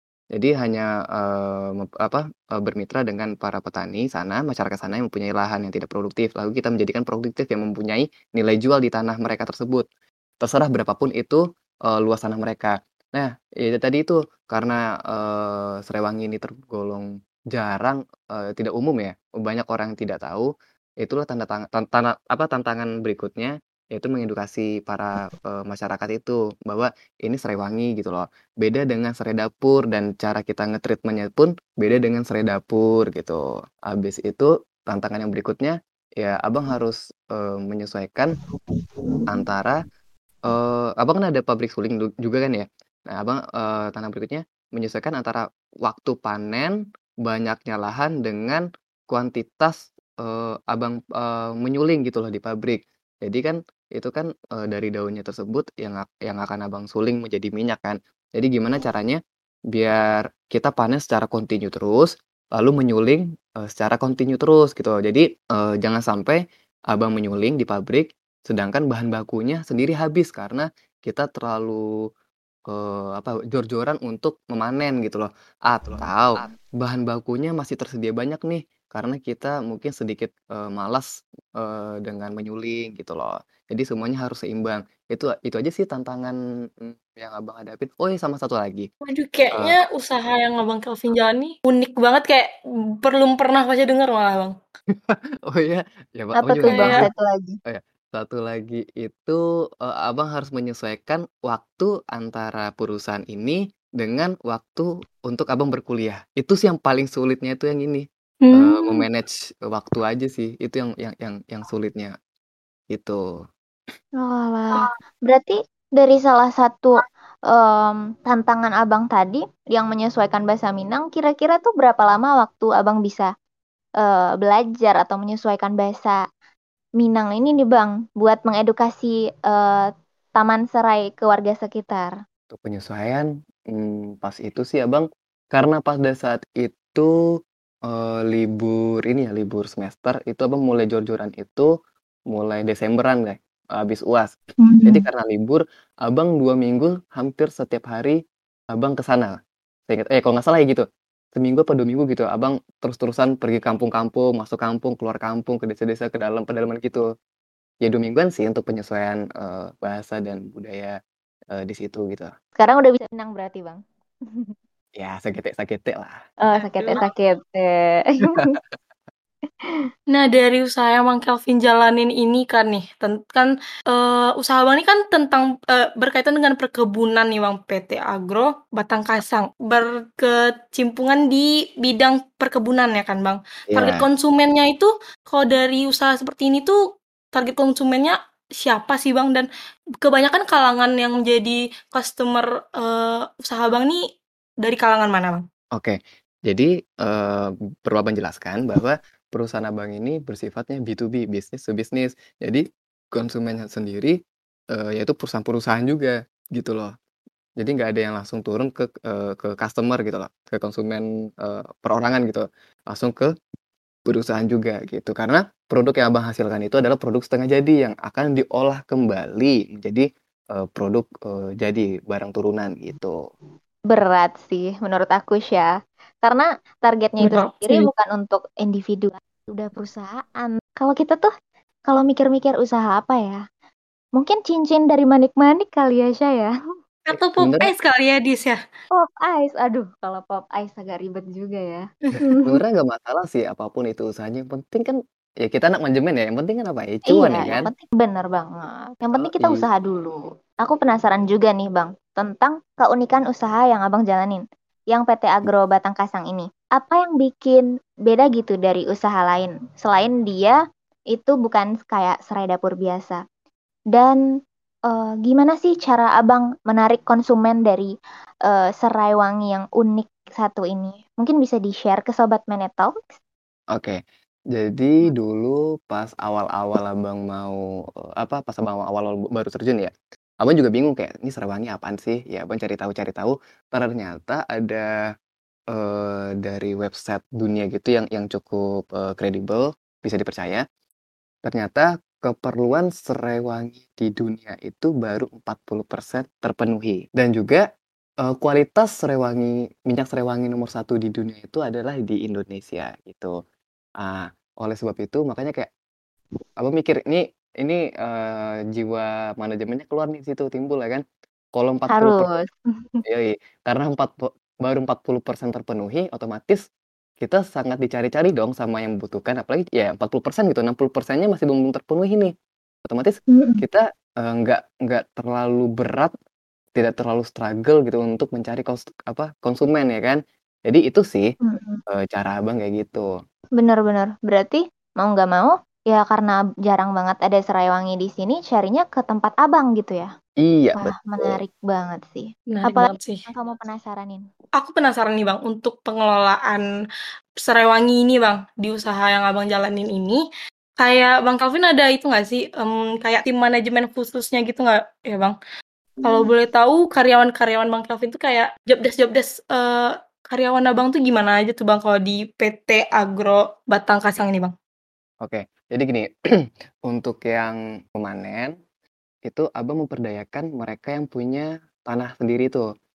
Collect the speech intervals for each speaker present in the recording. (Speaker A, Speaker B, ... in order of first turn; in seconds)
Speaker A: 0.3-9.8, 10.4-20.5, 21.0-38.3, 39.3-39.8, 40.5-59.2, 59.7-71.8, 72.7-88.9, 95.1-97.1, 97.7-112.1, 112.9-113.2, 132.5-137.1, 137.9-141.7, 142.3-144.3, 144.9-148.2, 148.7-149.3, 149.9-157.1, 157.8-161.0, 161.5-162.3, 165.0-166.2, 168.3-168.6, 183.7-184.1, 195.8-204.2, 204.7-206.9, 207.6-213.3, 214.1-223.1, 237.1-237.7, 242.4-247.7, 249.1-249.7, 274.6-277.6, 278.2-279.9, 280.4-284.9, 285.7-290.6, 291.4-297.6, 298.2-303.3, 304.0-305.7, 306.6-311.0, 311.6-312.3, 313.1-316.6, 317.2-322.3, 322.9-326.1, 326.8-331.3, 331.9-333.1, 340.4-341.4, 365.2-366.1, 366.9-368.6, 369.3-372.7
Speaker B: 89.0-94.5, 96.7-97.1, 108.4-109.1, 166.6-167.1, 170.1-186.8, 187.3-189.5, 190.0-194.0, 194.6-195.4, 227.2-227.9, 237.1-238.6, 247.3-247.7, 342.5-343.3, 344.6-346.6, 347.4-350.2, 350.8-355.4, 356.0-364.5
Speaker C: 96.4-97.6, 114.2-123.3, 124.0-126.2, 127.0-132.1, 144.6-145.0, 162.6-164.5, 166.4-168.6, 223.9-225.7, 226.2-231.3, 231.9-233.4, 234.2-236.5, 238.9-242.6, 247.1-260.6, 261.1-263.2, 263.9-264.2, 264.9-267.9, 268.5-273.0, 311.9-313.0, 323.3-323.6, 331.4-331.8, 333.6-340.1, 340.8-344.2, 356.0-356.3